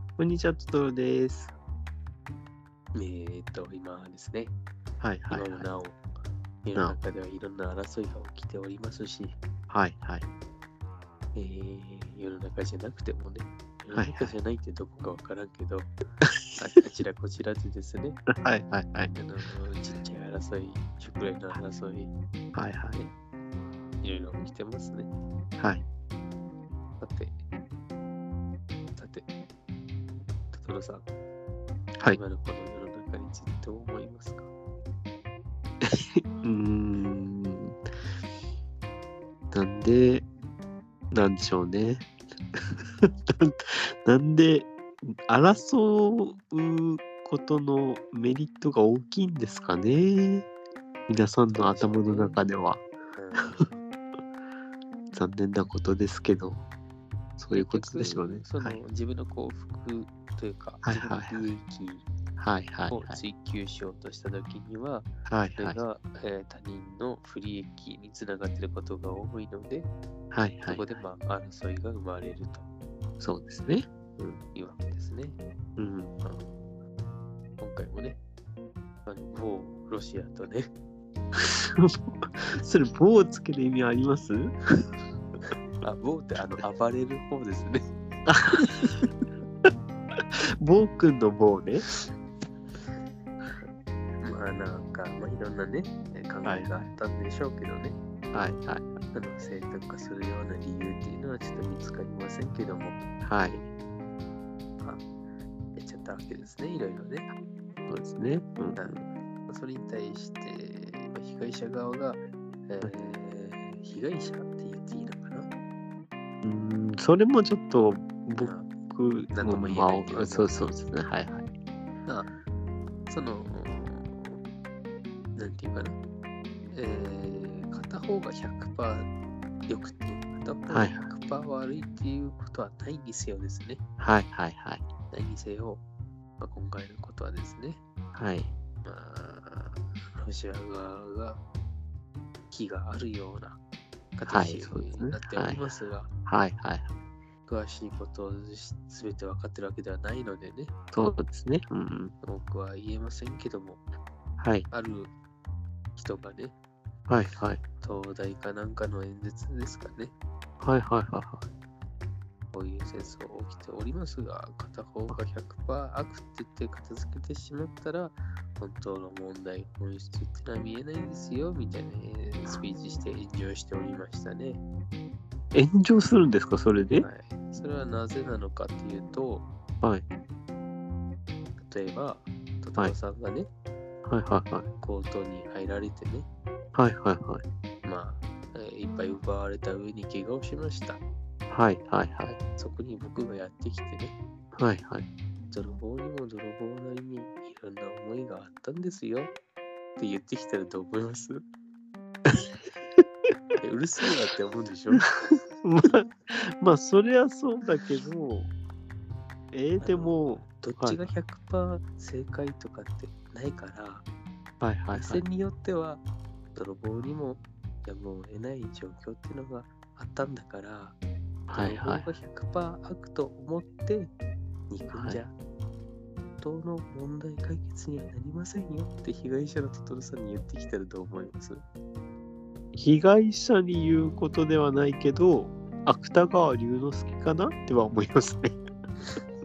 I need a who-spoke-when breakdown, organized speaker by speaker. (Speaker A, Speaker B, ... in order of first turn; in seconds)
Speaker A: 0.2-1.5, 5.0-5.7, 9.7-10.2, 13.9-14.3, 16.2-16.5, 18.3-19.1, 22.5-23.0, 35.8-37.8, 39.5-40.3, 41.1-50.5, 51.1-52.8, 53.4-53.7, 55.1-56.6, 57.4-58.8, 60.8-61.4, 62.4-63.2, 65.3-65.8, 70.3-71.0, 73.2-74.4, 75.8-76.1, 81.3-84.5, 88.3-89.0, 90.6-91.8, 96.4-96.7, 98.3-99.0, 103.2-103.6, 107.9-109.0, 116.4-121.5, 130.7-131.1, 134.0-134.8, 138.2-138.5, 144.3-145.6, 146.2-146.9, 150.9-152.1, 154.4-154.7, 157.1-157.6, 160.6-161.4, 175.5-177.1, 184.1-184.7, 186.8-187.4, 191.5-192.3, 194.6-195.1, 205.6-208.5, 209.5-211.1, 214.6-215.2, 221.5-222.1, 224.9-225.2, 232.7-238.6
Speaker B: 2.9-4.5, 5.3-6.0, 6.6-9.3, 11.3-15.9, 16.6-18.2, 19.1-22.1, 24.0-25.1, 27.0-27.4, 28.9-29.2, 30.5-31.0, 32.1-34.5, 51.5-52.4, 53.2-53.8, 57.5-62.1, 62.9-69.9, 70.7-72.7, 74.5-75.4, 76.2-76.5, 77.6-78.2, 79.0-80.7, 85.8-87.8, 94.2-98.0, 99.1-103.0, 105.8-107.3, 108.8-115.5, 118.4-118.7, 119.3-120.6, 123.1-124.4, 125.3-126.0, 126.7-129.1, 129.7-133.8, 135.1-135.8, 136.4-137.8, 138.8-141.4, 142.5-143.6, 144.1-146.1, 147.5-150.7, 152.2-153.8, 154.7-155.1, 155.9-156.5, 157.8-160.1, 162.5-174.6, 177.0-179.5, 181.6-183.5, 184.8-186.2, 187.8-191.0, 192.2-194.1, 195.5-199.3, 200.0-201.4, 203.6-205.0, 209.8-214.1, 214.9-216.0, 216.5-221.0, 221.5-224.1, 224.7-225.3, 226.4-231.6